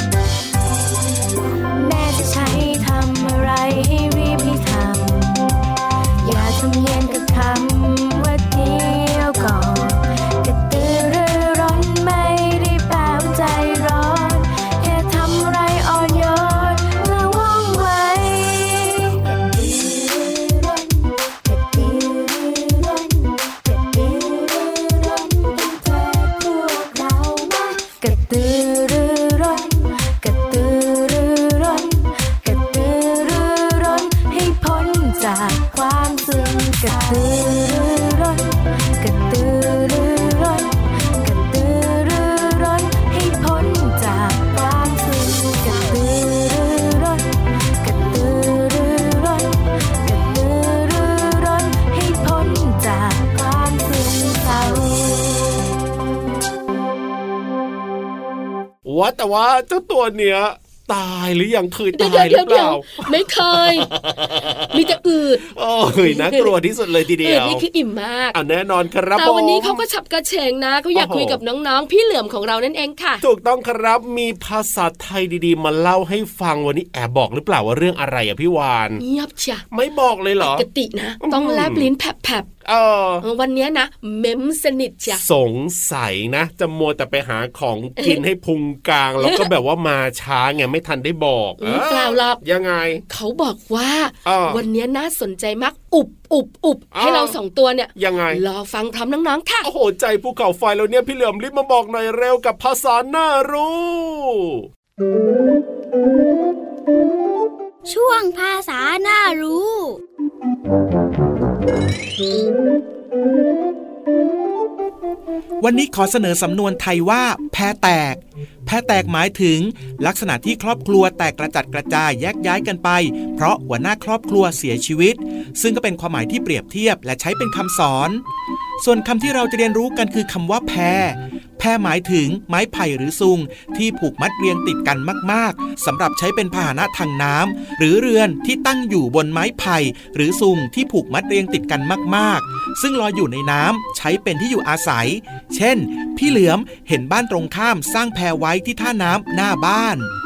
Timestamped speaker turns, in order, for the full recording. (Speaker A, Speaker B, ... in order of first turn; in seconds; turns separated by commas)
Speaker A: 1.7-5.6, Speaker A: 6.2-55.7, Speaker B: 58.9-67.6, Speaker C: 61.9-63.9, Speaker C: 64.7-65.5, Speaker C: 66.0-66.5, Speaker C: 67.2-68.4, Speaker B: 68.3-69.8, Speaker C: 69.2-73.2, Speaker B: 70.9-71.4, Speaker B: 73.2-79.0, Speaker C: 79.0-79.6, Speaker B: 79.7-80.7, Speaker C: 80.4-82.5, Speaker B: 81.2-81.9, Speaker B: 82.7-83.2, Speaker C: 83.2-85.2, Speaker B: 85.1-93.0, Speaker C: 89.2-89.5, Speaker C: 91.6-92.4, Speaker C: 93.1-99.7, Speaker B: 94.2-94.6, Speaker B: 96.9-97.4, Speaker B: 98.0-98.4, Speaker B: 99.6-104.7, Speaker D: 107.9-110.0, Speaker E: 115.6-128.2, Speaker E: 128.8-150.1